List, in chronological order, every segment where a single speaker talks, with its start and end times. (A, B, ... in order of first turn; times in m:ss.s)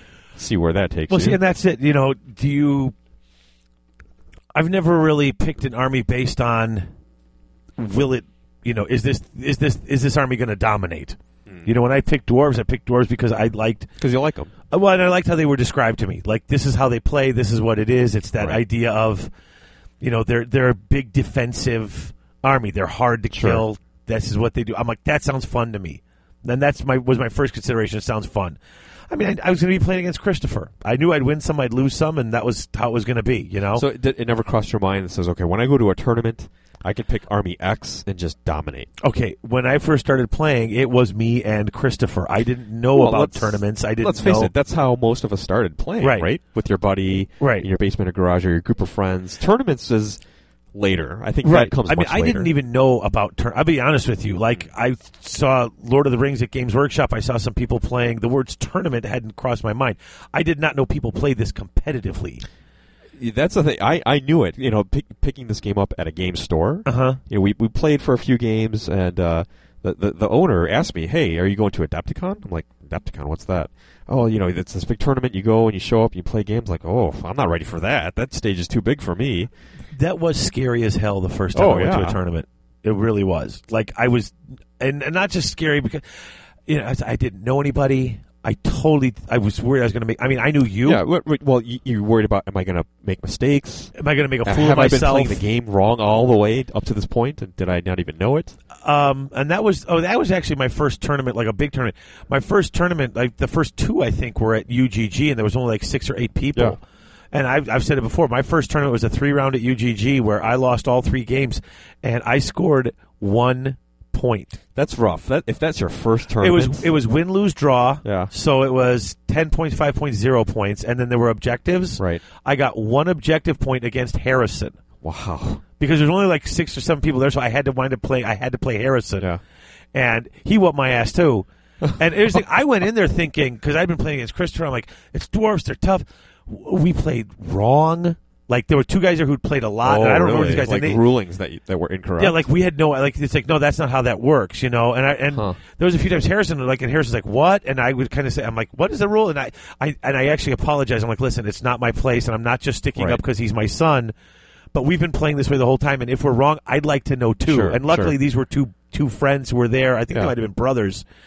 0:00.3-0:01.4 A
0:01.1-0:02.9 B
0:04.5-0:06.9 B
0:07.8-0:13.9 B
0:14.0-0:14.5 A
0:14.7-0:19.3 B
0:20.0-0:28.6 B
0:23.3-0:23.6 A
0:29.1-0:33.8 B
0:33.7-0:38.9 A
0:39.0-0:44.5 B
0:42.9-0:50.2 A
0:46.0-0:46.3 B
0:47.4-0:47.6 B
0:50.7-0:52.5 A
0:51.4-1:02.4 B
1:03.2-1:19.5 A
1:06.8-1:07.2 B
1:19.9-1:31.0 B
1:21.5-1:22.2 A
1:30.8-1:33.9 A
1:33.9-1:35.4 B
1:34.4-1:38.6 A
1:38.8-1:46.8 B
1:47.3-1:54.6 B
1:54.7-1:56.9 A
1:56.4-2:04.8 B
1:58.0-1:58.3 A
2:05.0-2:05.6 A
2:05.8-2:09.3 B
2:09.9-2:21.0 B
2:19.8-2:22.4 A
2:22.2-2:34.1 B
2:25.3-2:25.6 A
2:33.0-2:33.2 A
2:34.7-2:41.0 B
2:37.5-2:38.2 A